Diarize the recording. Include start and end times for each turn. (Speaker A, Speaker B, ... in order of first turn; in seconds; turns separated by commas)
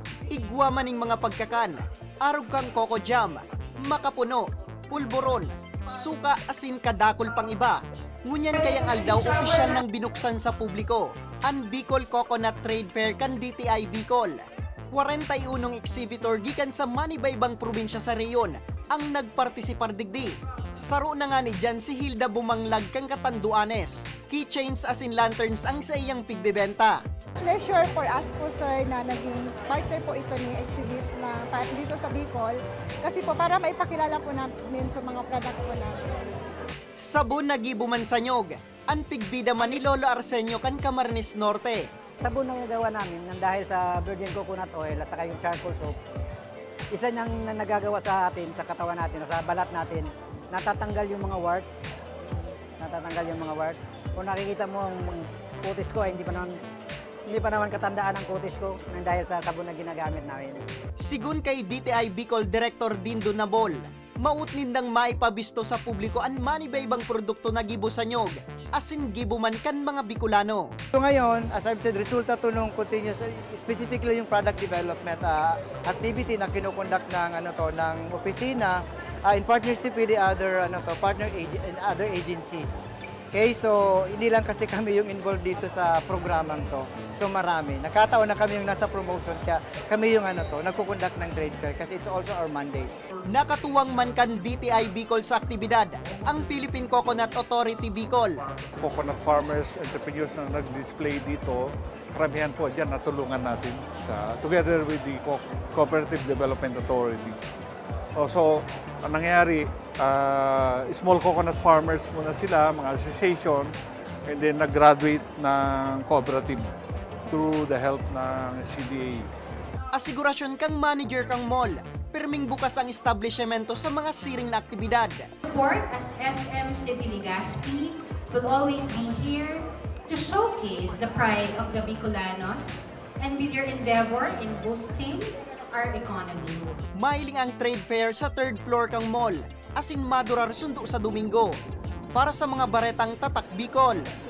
Speaker A: 0.3-27.0, Speaker B: 8.5-9.8, Speaker C: 27.4-36.1, Speaker A: 37.0-41.9, Speaker D: 42.2-46.0, Speaker D: 46.9-51.8, Speaker D: 52.8-56.6, Speaker D: 57.3-60.6, Speaker A: 61.0-70.7, Speaker E: 71.0-93.0, Speaker A: 93.3-98.5, Speaker F: 98.8-107.4, Speaker F: 108.2-113.7, Speaker F: 114.3-116.7, Speaker F: 117.3-119.3, Speaker A: 119.9-125.3, Speaker B: 125.4-136.8, Speaker A: 137.0-141.6, Speaker A: 142.1-144.1